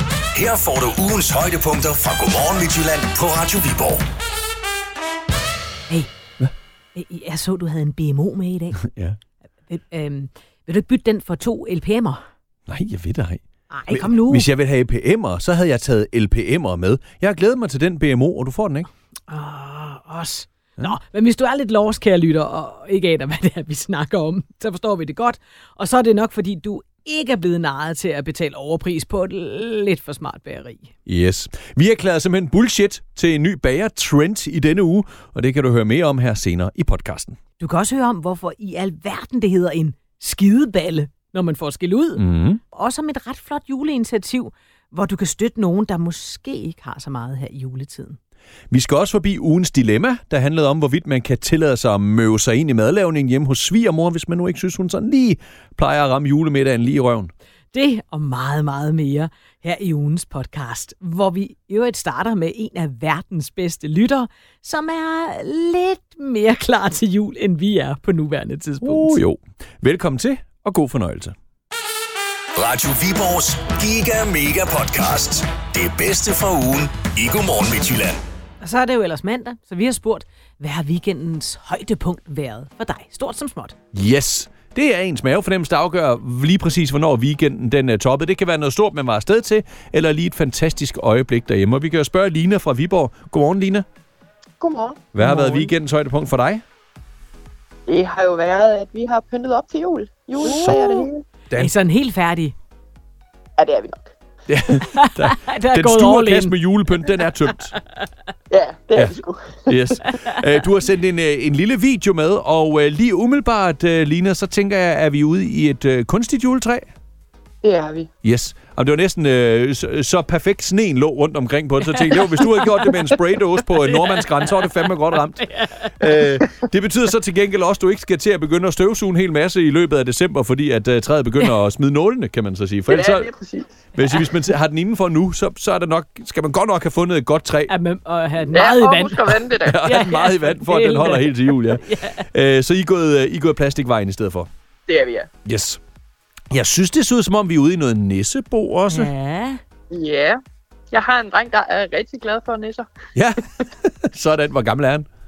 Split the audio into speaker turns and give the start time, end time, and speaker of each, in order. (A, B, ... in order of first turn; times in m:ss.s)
0:00.3-0:04.0 A
0:06.9-0:08.8 B
0:08.8-0:09.2 C
0:09.7-0:12.2 B
0:12.7-0:18.9 C
0:13.7-0:14.5 B
0:19.3-0:30.9 B
0:31.0-0:37.4 C
0:37.6-0:48.2 B
0:42.1-0:42.6 C
0:48.7-0:57.3 C
0:57.7-1:09.2 B
1:08.8-1:11.4 C
1:12.5-1:18.2 A
1:18.6-1:23.7 B
1:23.9-1:33.8 C
1:34.6-1:35.1 D
1:35.1-1:36.6 C
1:35.2-1:35.7 B
1:37.9-1:41.2 D
1:40.4-1:41.0 B
1:40.4-1:41.7 C
1:41.6-1:42.5 B
1:43.6-1:44.1 D
1:44.5-1:47.8 C
1:44.9-1:46.6 B
1:48.5-1:49.9 D
1:48.9-1:56.9 C
1:50.0-1:50.4 B
1:57.6-1:58.1 D
1:58.2-2:05.4 C
2:01.8-2:02.9 B
2:03.8-2:06.2 B
2:06.0-2:13.3 C
2:12.9-2:13.8 D
2:13.9-2:17.7 C
2:17.7-2:19.2 B
2:18.5-2:19.8 D
2:19.6-2:24.5 C
2:19.8-2:22.2 B
2:24.9-2:25.3 D
2:25.4-2:25.8 C
2:26.5-2:29.1 C
2:28.9-2:29.6 B
2:29.9-2:32.9 D
2:33.1-2:35.1 C